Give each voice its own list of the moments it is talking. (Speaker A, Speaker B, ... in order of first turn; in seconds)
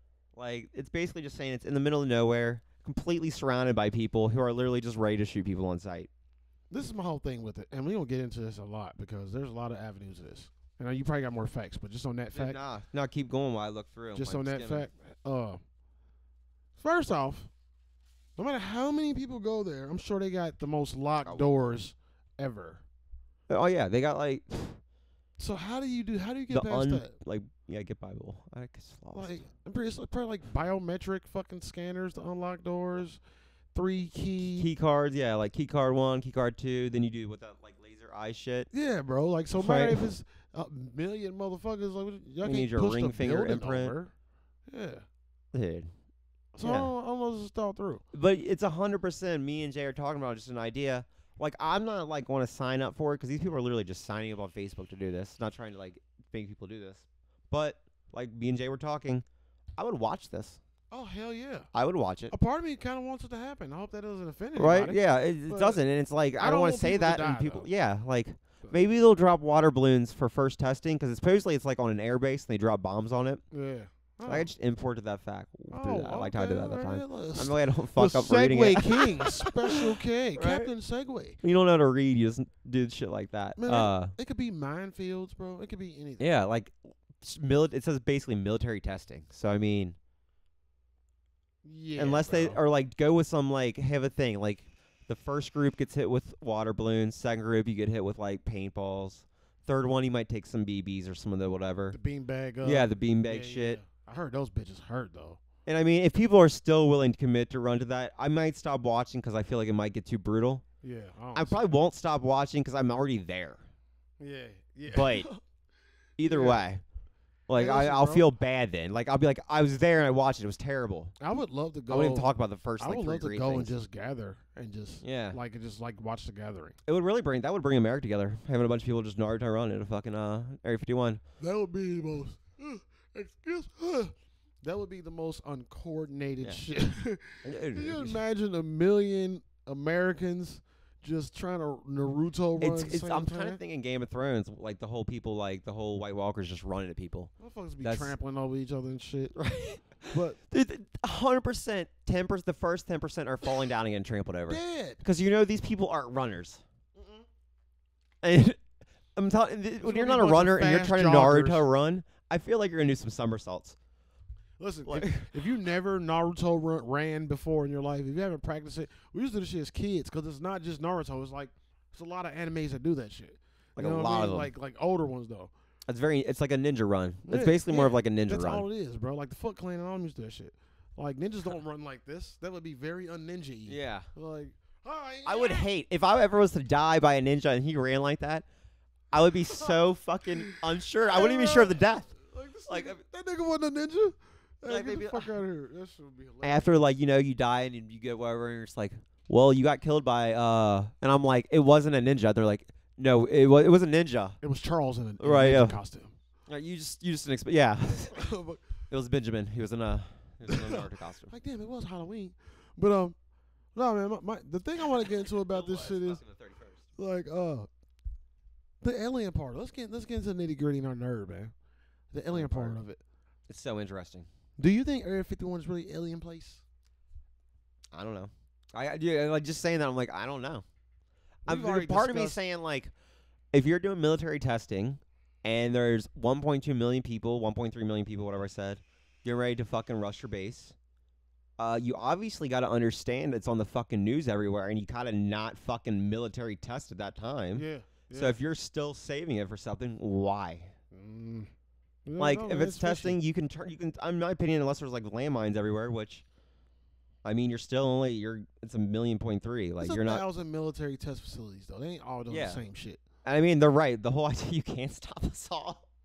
Speaker A: 0.3-6.1, 12.3-14.9, 21.2-21.6, 23.5-24.8, 26.5-29.4, 34.6-38.7, 39.6-40.0, 42.4-44.0, 45.5-45.9, 46.6-46.9, 48.1-59.2, 59.8-60.6, 61.7-62.3, 64.6-73.4, 74.3-80.7, 81.4-84.1, 86.2-90.0, 92.0-102.0, 102.6-103.8, 105.7-110.6, 111.3-113.6, 114.9-115.3, 116.2-116.8, 117.5-121.2, 121.9-123.7, 125.0-125.4, 126.9-131.2, 137.4-138.2, 142.6-147.3, 147.8-148.2, 149.3-156.6, 158.2-158.6, 159.2-163.8, 164.9-165.4, 173.8-174.5, 175.9-178.7, 183.7-184.1, 185.2-188.5, 189.1-192.1, 192.7-193.0, 194.7-195.3, 196.4-204.4, 205.2-205.8, 206.5-208.2, 208.9-211.3, 215.1-216.8, 222.3-222.8, 223.5-224.3, 227.9-230.7, 231.5-232.9, 233.5-240.8, 241.6-250.7, 252.2-256.2, 257.2-260.2, 262.3-262.6, 263.2-265.8
Speaker B: 6.7-12.6, 14.2-15.6, 16.8-17.5, 18.4-22.8, 25.4-27.1, 29.1-33.2, 33.7-34.7, 38.7-44.1, 44.7-45.1, 46.5-48.0, 60.9-61.7, 62.3-65.8, 66.4-67.7, 73.5-74.5, 75.7-81.4, 83.6-86.3, 91.6-92.6, 101.9-105.4, 110.8-111.7, 114.2-115.4, 116.2-116.6, 117.6-118.3, 121.2-126.8, 131.4-143.6, 147.4-149.4, 150.1-150.4, 154.5-155.0, 156.9-157.2, 159.8-161.6, 164.6-175.5, 177.3-185.7, 190.5-196.7, 204.4-206.1, 208.1-208.6, 210.5-213.2, 213.8-216.2, 217.0-217.7, 218.8-221.5, 222.1-223.0, 224.6-226.6, 231.5-232.4, 247.5-248.4, 250.9-251.5, 252.1-253.2, 259.8-263.0